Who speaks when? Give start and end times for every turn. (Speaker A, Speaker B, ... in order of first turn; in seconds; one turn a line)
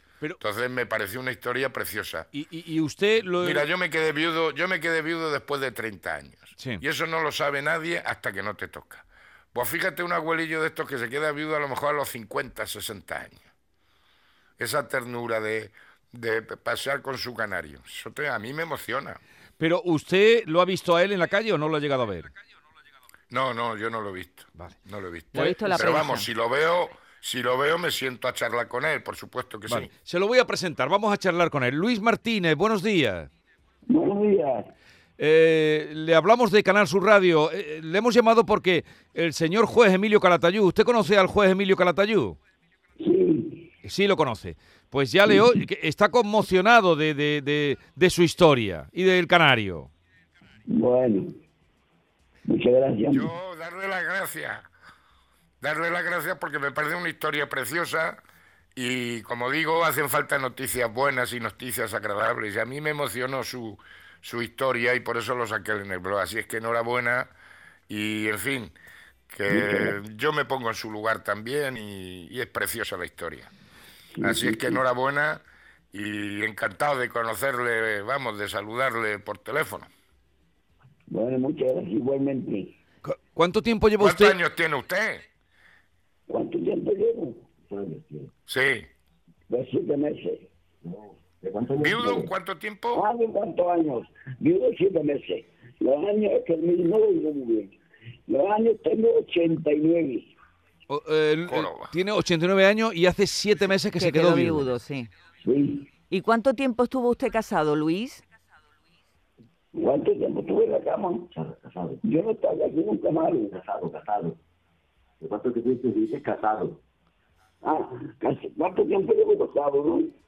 Speaker A: 0.4-2.3
Speaker B: 2.3-3.7
Speaker A: 3.4-13.5
Speaker B: 6.6-6.8
Speaker A: 14.6-19.2
Speaker B: 19.6-22.3
Speaker A: 23.3-29.9
Speaker C: 25.3-26.3
Speaker B: 25.4-26.0
Speaker B: 29.7-33.3
Speaker D: 33.9-34.7
Speaker B: 35.2-42.4
Speaker D: 43.0-43.7
Speaker B: 43.8-49.9
Speaker D: 50.7-51.3
Speaker D: 52.5-53.3
Speaker A: 53.1-54.7
Speaker A: 55.6-58.2
Speaker A: 58.8-67.3
Speaker A: 67.9-68.8
Speaker A: 69.3-73.5
Speaker D: 69.5-69.9
Speaker D: 74.2-74.8
Speaker A: 74.2-79.9
Speaker D: 81.1-82.8
Speaker B: 83.0-84.4
Speaker A: 84.0-85.2
Speaker D: 86.3-87.5
Speaker E: 87.6-88.3
Speaker A: 88.5-88.9
Speaker D: 89.5-90.5
Speaker E: 90.8-92.3
Speaker A: 91.8-93.0
Speaker D: 92.9-100.3
Speaker B: 100.9-104.7
Speaker A: 101.5-101.9
Speaker C: 104.0-105.1
Speaker D: 105.4-105.9
Speaker C: 106.1-108.2
Speaker D: 109.7-111.3
Speaker E: 111.3-112.0
Speaker D: 112.0-113.5
Speaker E: 113.5-114.4
Speaker E: 115.2-116.8
Speaker D: 117.6-120.1